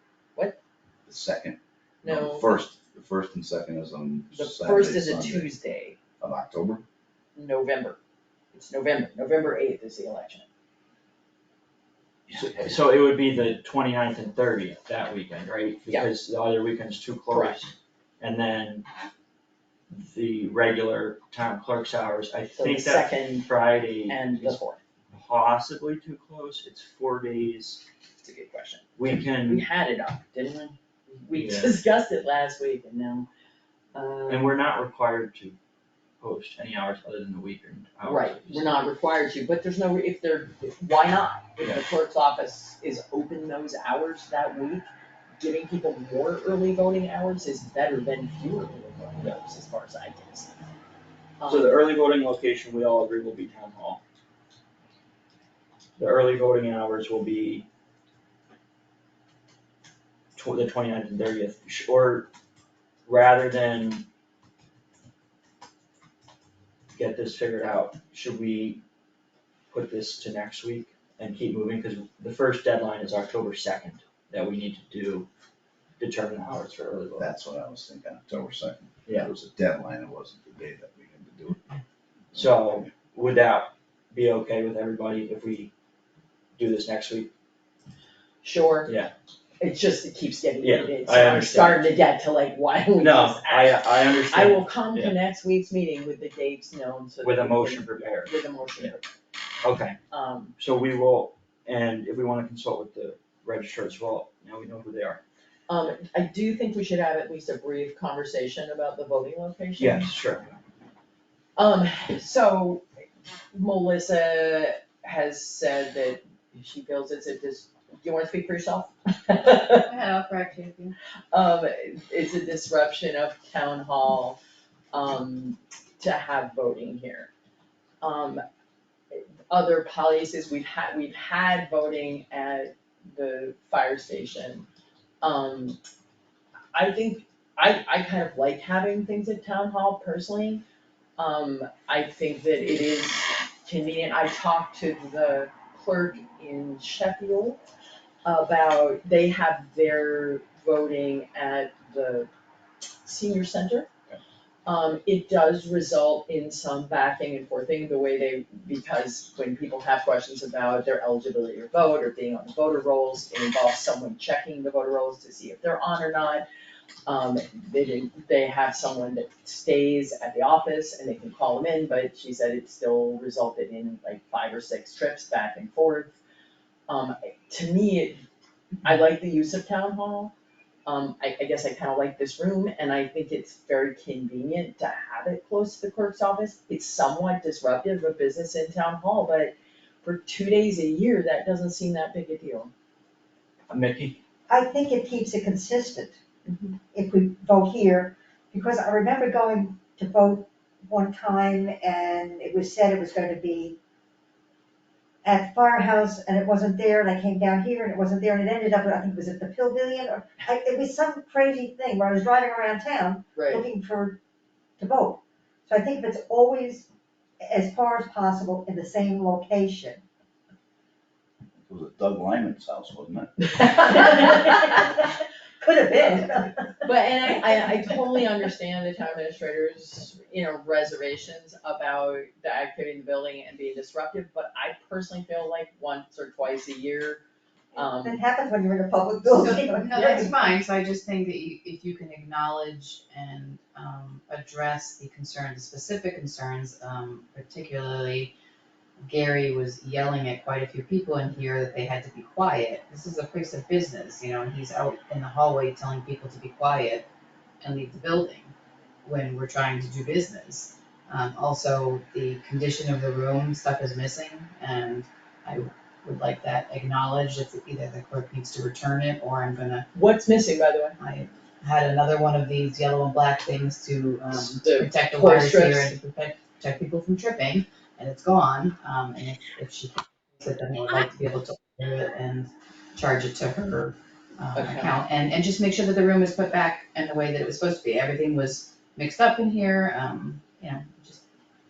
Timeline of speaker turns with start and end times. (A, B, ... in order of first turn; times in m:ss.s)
0:01.1-0:05.5 A
0:02.0-0:02.5 B
0:04.3-0:06.0 B
0:06.2-0:06.8 A
0:07.4-0:08.0 B
0:08.5-0:10.4 B
0:12.3-0:12.7 A
0:12.3-0:18.9 C
0:17.3-0:17.6 B
0:19.9-0:24.6 C
0:22.6-0:23.5 B
0:24.0-0:24.8 B
0:25.1-0:27.8 C
0:28.2-0:33.3 B
0:29.0-0:29.6 C
0:31.3-0:31.8 C
0:33.9-0:34.5 B
0:34.3-0:35.6 C
0:36.2-0:38.8 C
0:38.0-0:44.9 B
0:45.4-0:50.6 B
0:51.4-0:51.8 B
0:51.5-0:54.0 C
0:56.0-0:57.7 C
1:00.4-1:02.3 C
1:03.1-1:04.0 C
1:06.9-1:08.8 C
1:09.7-1:15.3 C
1:16.0-1:17.3 C
1:17.2-1:21.6 A
1:22.3-1:25.7 C
1:26.6-1:27.3 C
1:28.4-1:28.9 B
1:28.9-1:29.1 C
1:29.6-1:33.8 B
1:30.6-1:32.0 C
1:33.0-1:35.2 C
1:34.3-1:39.1 B
1:37.2-1:38.9 C
1:39.6-1:40.0 C
1:40.1-1:40.5 B
1:40.6-1:45.2 C
1:45.7-1:50.1 B
1:49.8-1:50.6 C
1:51.6-1:52.8 B
1:53.5-1:59.9 B
1:59.7-2:01.0 D
2:01.3-2:04.4 B
2:04.9-2:07.3 B
2:08.0-2:08.4 B
2:09.1-2:14.7 B
2:15.2-2:15.8 B
2:16.7-2:20.6 B
2:21.2-2:27.6 B
2:28.2-2:32.3 B
2:33.0-2:33.9 B
2:34.6-2:46.5 B
2:47.1-2:56.2 B
2:56.9-2:58.2 B
2:58.8-3:00.3 B
3:00.9-3:12.7 B
3:13.7-3:14.2 C
3:14.5-3:16.2 E
3:16.5-3:16.7 B
3:16.9-3:23.8 E
3:25.2-3:34.2 E
3:33.4-3:33.7 B
3:34.8-3:36.9 E
3:37.4-3:40.0 E
3:41.6-3:43.6 A
3:43.7-3:46.9 E
3:43.7-3:44.5 B
3:46.8-3:57.2 B
3:57.7-3:58.2 B
3:57.8-4:00.3 E
3:59.3-4:08.3 D
4:09.0-4:17.1 D
4:17.6-4:18.5 D
4:19.0-4:29.9 D
4:29.9-4:31.0 B
4:31.0-4:51.2 D
4:34.3-4:36.0 B
4:44.6-4:45.0 B